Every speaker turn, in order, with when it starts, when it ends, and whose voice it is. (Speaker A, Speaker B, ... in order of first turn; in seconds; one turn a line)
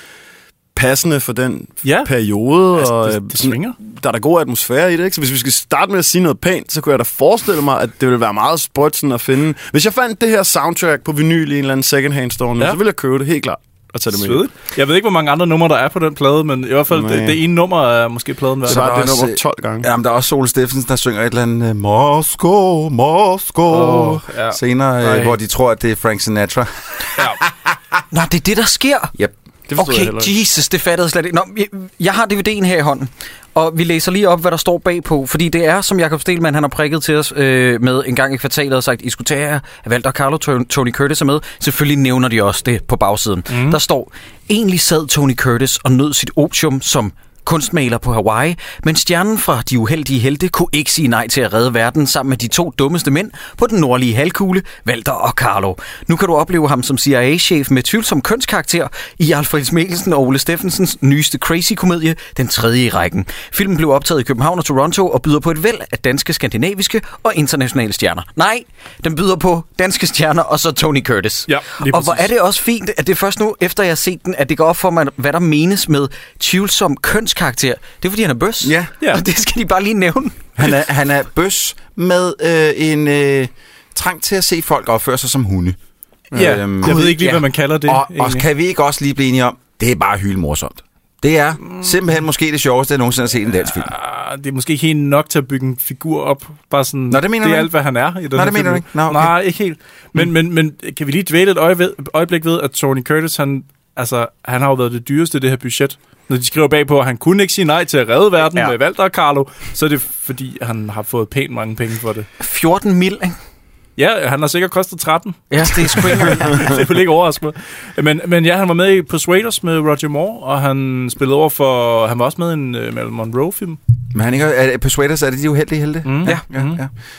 Speaker A: 0.8-14.4
Speaker B: 1.8-2.1
Speaker B: 2.7-3.8
Speaker B: 14.1-18.9
Speaker A: 16.9-17.4
Speaker A: 18.6-19.9
Speaker C: 18.6-27.4
Speaker B: 23.7-25.4
Speaker B: 27.2-27.4
Speaker D: 28.1-29.1
Speaker A: 29.7-30.3
Speaker D: 29.8-80.5
Speaker B: 43.5-43.8
Speaker B: 71.5-72.3
Speaker C: 78.6-78.9
Speaker C: 80.6-85.8
Speaker C: 86.3-87.2
Speaker B: 86.3-88.5
Speaker D: 86.8-87.4
Speaker C: 87.8-93.9
Speaker B: 93.6-112.3
Speaker C: 97.1-97.7
Speaker C: 98.3-99.3
Speaker D: 112.4-113.4
Speaker B: 114.0-123.8
Speaker D: 115.5-116.7
Speaker C: 124.1-126.9
Speaker B: 126.0-126.8